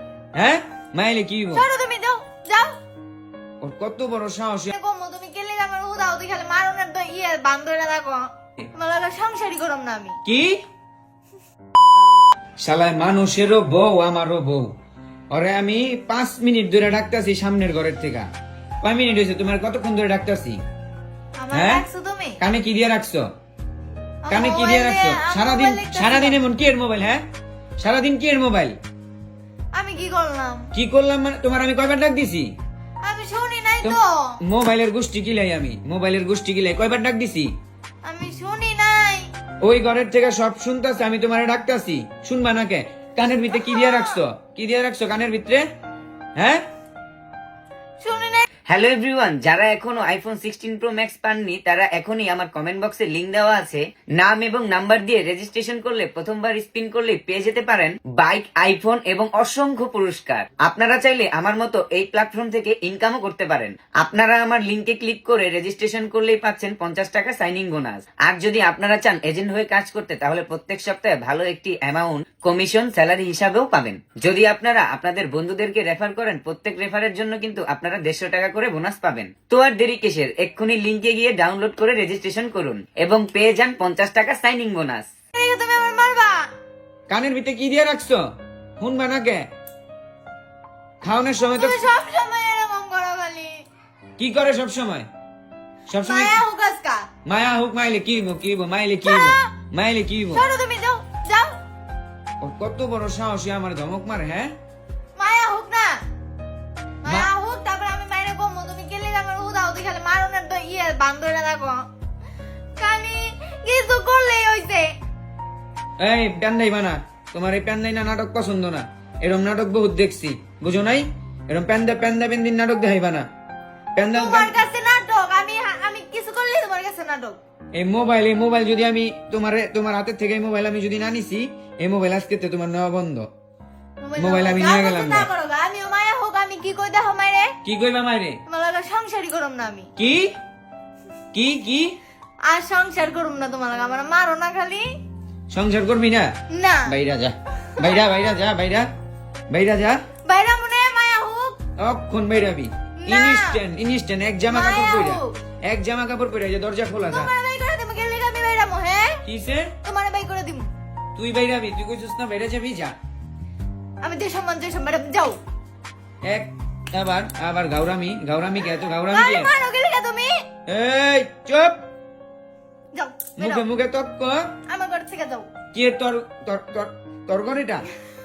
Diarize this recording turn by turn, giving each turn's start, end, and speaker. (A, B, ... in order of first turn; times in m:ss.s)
0:00.4-0:01.6 A
0:01.5-0:02.7 B
0:03.6-0:04.7 A
0:04.7-0:10.2 B
0:10.3-0:10.5 A
0:12.6-0:14.7 A
0:15.3-0:18.3 A
0:18.8-0:20.6 A
0:21.4-0:22.4 B
0:21.5-0:21.8 A
0:22.4-0:23.2 A
0:24.2-0:26.4 B
0:24.3-0:27.2 A
0:27.8-0:28.8 A
0:29.7-0:30.7 B
0:30.7-0:32.5 A
0:33.0-0:34.4 B
0:33.8-0:37.5 A
0:38.0-0:39.2 B
0:39.6-0:45.6 A
0:43.6-0:44.2 B
0:46.4-0:46.6 A
0:48.0-0:48.4 B
0:48.7-1:25.0 C
1:25.4-1:26.5 B
1:27.1-1:28.2 A
1:28.8-1:29.4 A
1:31.0-1:31.8 A
1:31.6-1:33.6 B
1:34.2-1:35.0 A
1:35.9-1:36.4 A
1:36.0-1:37.0 B
1:37.2-1:40.4 A
1:39.0-1:39.5 B
1:40.3-1:41.6 B
1:42.4-1:44.5 A
1:45.2-1:45.9 B
1:47.0-1:51.8 B
1:52.8-1:54.9 B
1:56.0-2:03.3 A
2:04.0-2:04.5 A
2:04.1-2:07.4 B
2:07.8-2:13.3 A
2:14.0-2:17.6 B
2:14.2-2:15.3 A
2:17.6-2:18.4 A
2:18.5-2:19.9 B
2:20.0-2:20.3 A
2:21.3-2:22.0 A
2:22.4-2:24.9 B
2:25.5-2:26.3 A
2:26.5-2:27.0 B
2:26.9-2:28.9 A
2:29.5-2:30.0 A
2:30.3-2:31.6 B
2:31.8-2:37.3 A
2:33.0-2:33.6 B
2:34.5-2:35.4 B
2:37.1-2:39.2 B
2:39.2-2:39.7 A
2:39.8-2:40.7 B
2:41.2-2:43.0 A
2:44.0-2:45.4 B
2:46.2-2:49.5 A
2:49.1-2:50.4 B
2:50.7-2:51.8 A
2:52.9-2:53.7 B
2:53.4-2:54.5 A
2:54.7-2:55.5 B
2:55.7-2:57.9 A